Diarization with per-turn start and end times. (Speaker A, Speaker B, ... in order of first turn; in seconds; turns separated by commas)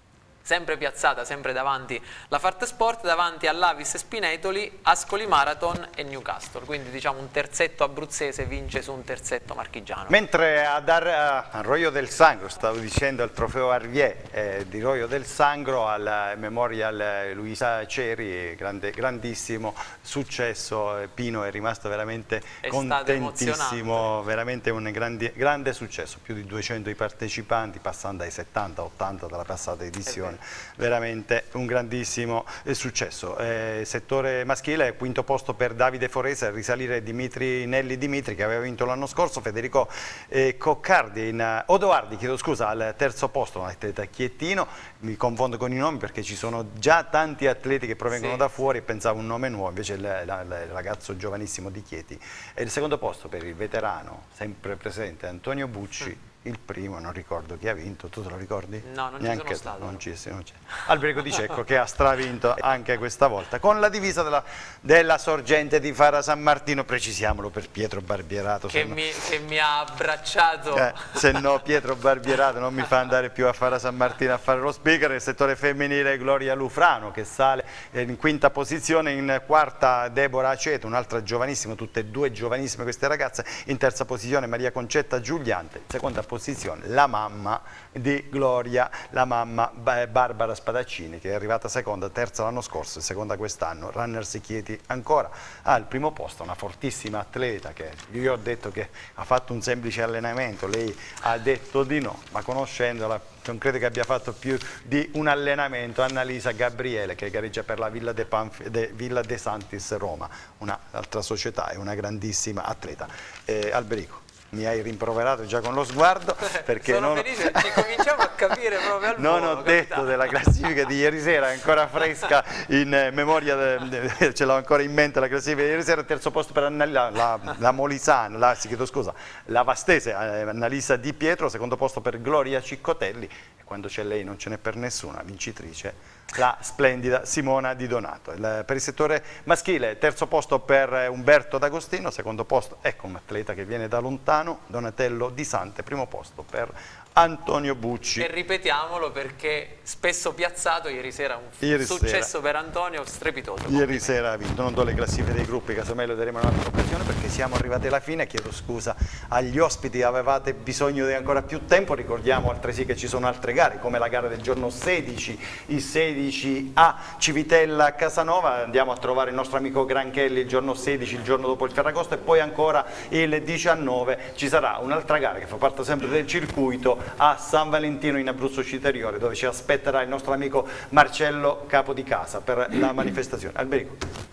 Speaker A: 0.4-10.2, Speaker B: 10.1-69.1, Speaker A: 22.6-24.1, Speaker A: 30.1-30.4, Speaker A: 48.1-48.6, Speaker A: 58.8-60.0, Speaker A: 68.7-71.3, Speaker B: 70.7-118.3, Speaker A: 116.6-120.3, Speaker B: 119.0-148.3, Speaker A: 148.2-154.2, Speaker B: 151.6-152.3, Speaker B: 153.7-184.0